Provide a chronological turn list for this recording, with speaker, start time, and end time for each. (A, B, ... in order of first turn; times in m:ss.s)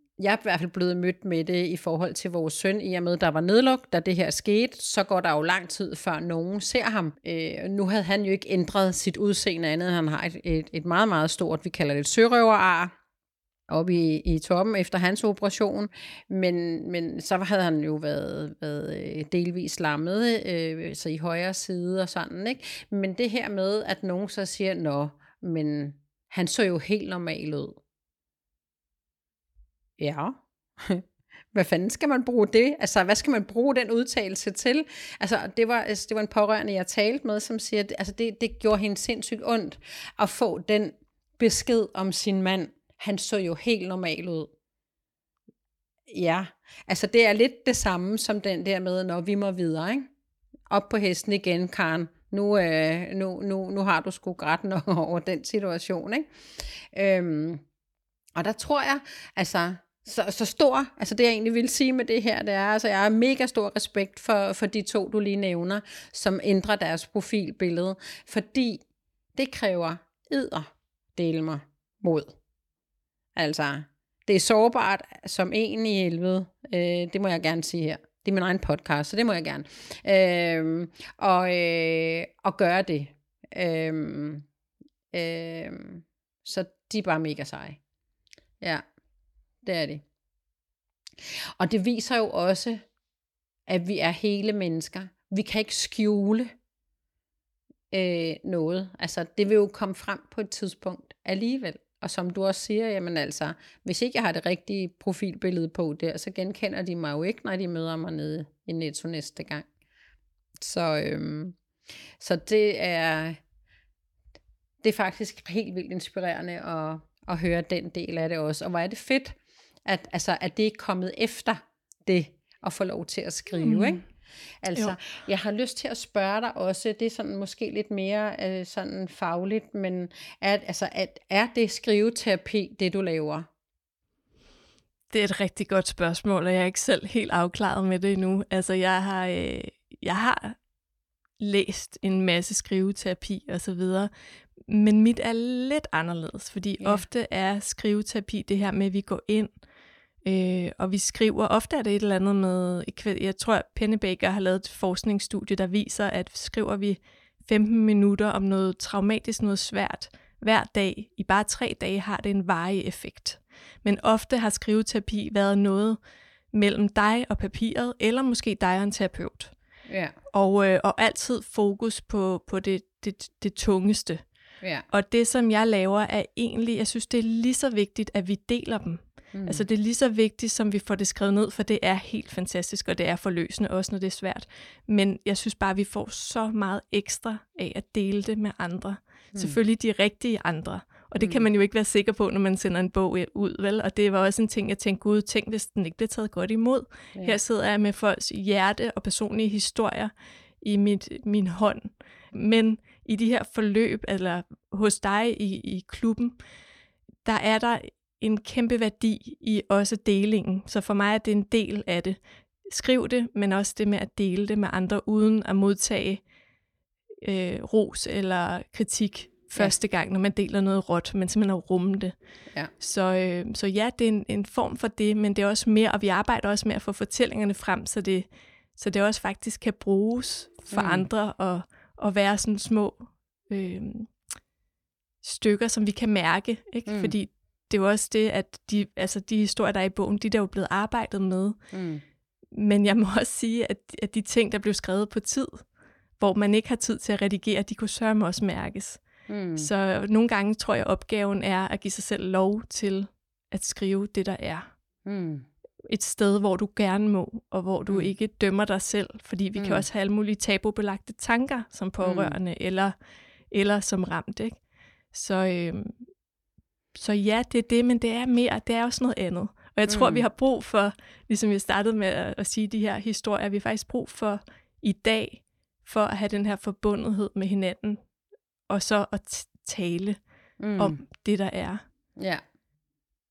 0:00.2-0:12.9 A
0:13.7-0:27.8 A
0:30.0-0:44.5 A
0:46.1-0:50.1 A
0:50.7-0:56.3 A
0:56.9-0:57.6 A
0:58.4-1:08.8 A
1:09.4-1:12.4 A
1:13.4-1:24.5 A
1:25.1-1:27.8 A
1:29.6-1:30.0 A
1:31.6-1:32.8 A
1:33.7-1:36.5 A
1:37.9-1:49.7 A
1:50.6-1:51.6 A
1:52.2-1:53.4 A
1:54.8-1:59.4 A
1:59.9-2:04.0 A
2:03.6-2:04.0 B
2:04.6-2:13.5 A
2:15.1-2:20.6 B
2:21.4-2:24.1 B
2:24.7-2:29.5 B
2:26.8-2:27.1 A
2:30.2-2:46.0 B
2:46.5-2:49.5 B
2:49.9-2:50.2 A
2:50.3-2:54.2 B
2:54.9-3:26.4 B
2:59.3-2:59.6 A
3:27.2-3:36.2 B
3:37.2-3:42.1 B
3:42.8-3:54.1 B
3:50.7-3:51.1 A
3:55.2-4:01.6 B
3:56.9-3:57.2 A
4:01.7-4:02.0 A
4:02.5-4:05.6 B
4:06.2-4:09.0 B
4:09.3-4:09.7 A
4:09.6-4:14.7 B
4:15.0-4:15.5 A
4:15.8-4:22.9 B
4:19.6-4:19.8 A
4:22.0-4:22.4 A
4:23.5-4:24.6 B
4:25.1-4:26.0 B
4:27.0-4:38.0 B
4:29.9-4:30.2 A
4:38.7-4:40.2 B
4:40.6-4:41.0 A
4:40.8-4:41.8 B
4:42.2-4:42.4 A